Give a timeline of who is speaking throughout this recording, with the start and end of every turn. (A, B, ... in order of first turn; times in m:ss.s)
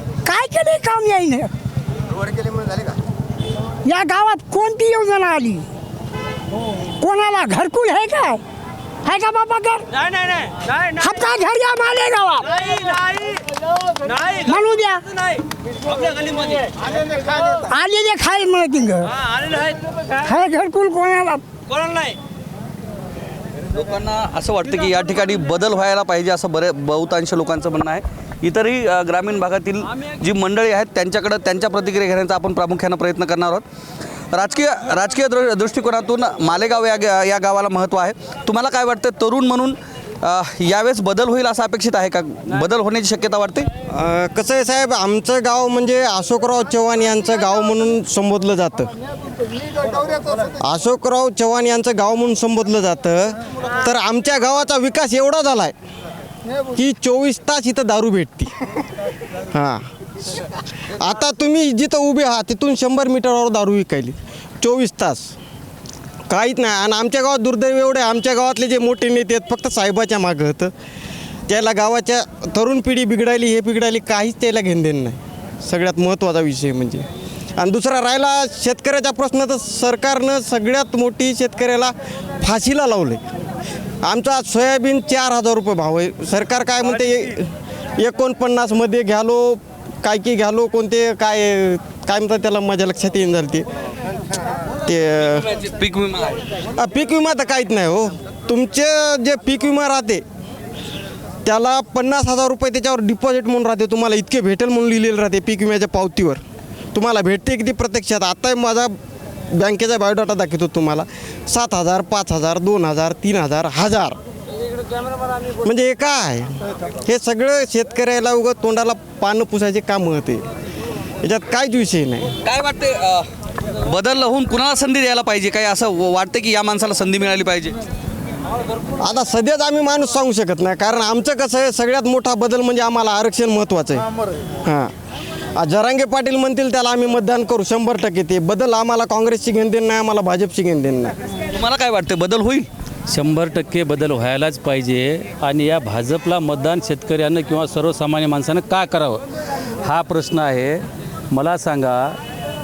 0:00.2-0:01.5 A
0:03.8-0:05.6 A
0:07.0-0:08.4 A
0:09.0-0:09.9 A
0:11.0-0:12.7 A
0:14.4-0:15.0 A
0:17.6-0:19.1 A
0:20.2-0:21.4 A
0:23.7-0:33.6 B
0:34.3-0:43.7 B
0:43.9-0:48.9 C
0:50.6-0:55.7 C
0:56.7-0:58.5 C
0:59.5-0:59.8 C
1:01.0-1:05.3 C
1:06.3-1:10.7 C
1:11.5-1:17.1 C
1:17.6-1:23.2 C
1:24.0-1:33.6 C
1:34.8-1:35.4 C
1:35.3-1:36.4 B
1:36.8-1:40.2 C
1:41.4-1:46.4 C
1:46.9-1:49.0 C
1:49.5-1:54.2 C
1:55.6-2:00.4 C
2:01.2-2:02.3 C
2:02.4-2:03.3 B
2:03.8-2:07.7 B
2:09.0-2:14.0 C
2:14.6-2:14.9 C
2:15.6-2:21.2 C
2:21.5-2:22.7 B
2:23.1-2:29.2 D
2:29.8-2:32.2 D